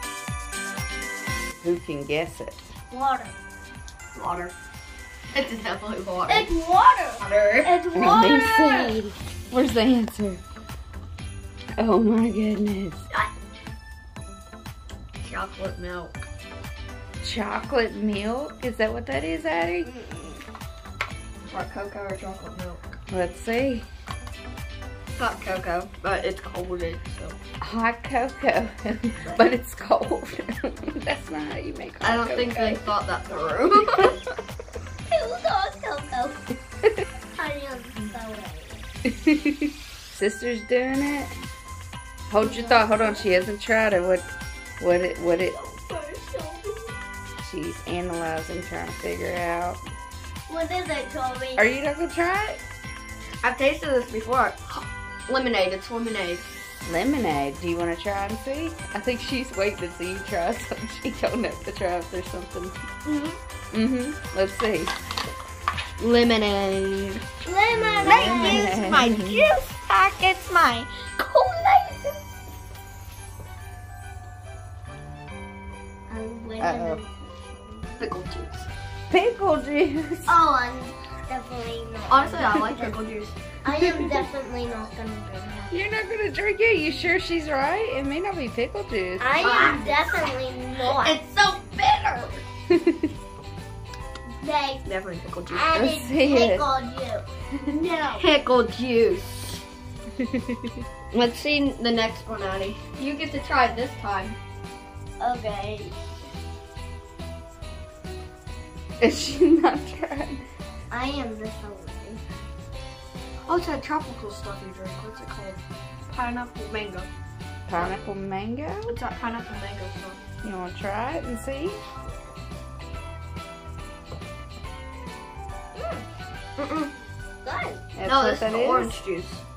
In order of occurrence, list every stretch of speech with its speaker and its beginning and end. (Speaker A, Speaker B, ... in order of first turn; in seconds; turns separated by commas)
Speaker A: 1.6-2.6, Speaker B: 2.9-3.4, Speaker C: 4.1-4.5, Speaker C: 5.3-6.5, Speaker B: 6.3-9.0, Speaker C: 7.2-7.8, Speaker A: 7.9-10.4, Speaker A: 11.8-13.1, Speaker C: 15.2-16.1, Speaker A: 17.2-19.9, Speaker C: 21.5-22.9, Speaker A: 23.1-23.9, Speaker C: 25.2-27.4, Speaker A: 27.6-32.8, Speaker C: 32.0-34.2, Speaker B: 35.1-36.4, Speaker B: 37.4-38.9, Speaker A: 39.2-41.4, Speaker A: 42.3-44.3, Speaker B: 42.4-43.3, Speaker A: 44.8-45.6, Speaker B: 45.5-47.0, Speaker A: 47.4-49.8, Speaker B: 50.5-51.6, Speaker A: 51.6-52.6, Speaker C: 53.4-56.5, Speaker A: 56.9-62.8, Speaker B: 63.1-63.4, Speaker A: 63.7-64.9, Speaker C: 66.0-67.2, Speaker B: 67.5-68.8, Speaker A: 68.0-69.5, Speaker C: 68.0-70.9, Speaker B: 71.2-72.2, Speaker B: 76.1-78.0, Speaker A: 76.6-77.0, Speaker C: 78.0-78.7, Speaker A: 79.1-80.4, Speaker B: 80.3-83.0, Speaker C: 82.1-83.4, Speaker B: 83.6-85.8, Speaker A: 85.7-89.4, Speaker B: 89.2-91.2, Speaker C: 89.4-92.4, Speaker B: 94.4-94.8, Speaker C: 94.8-96.0, Speaker B: 95.5-98.3, Speaker A: 95.8-96.7, Speaker C: 98.1-99.6, Speaker C: 101.1-104.4, Speaker B: 105.2-106.1, Speaker A: 109.0-110.4, Speaker B: 110.9-112.2, Speaker C: 113.5-117.1, Speaker A: 117.7-119.0, Speaker C: 118.9-120.2, Speaker A: 120.4-121.8, Speaker C: 126.6-126.9, Speaker B: 127.4-127.9, Speaker A: 128.0-129.0, Speaker C: 128.0-129.4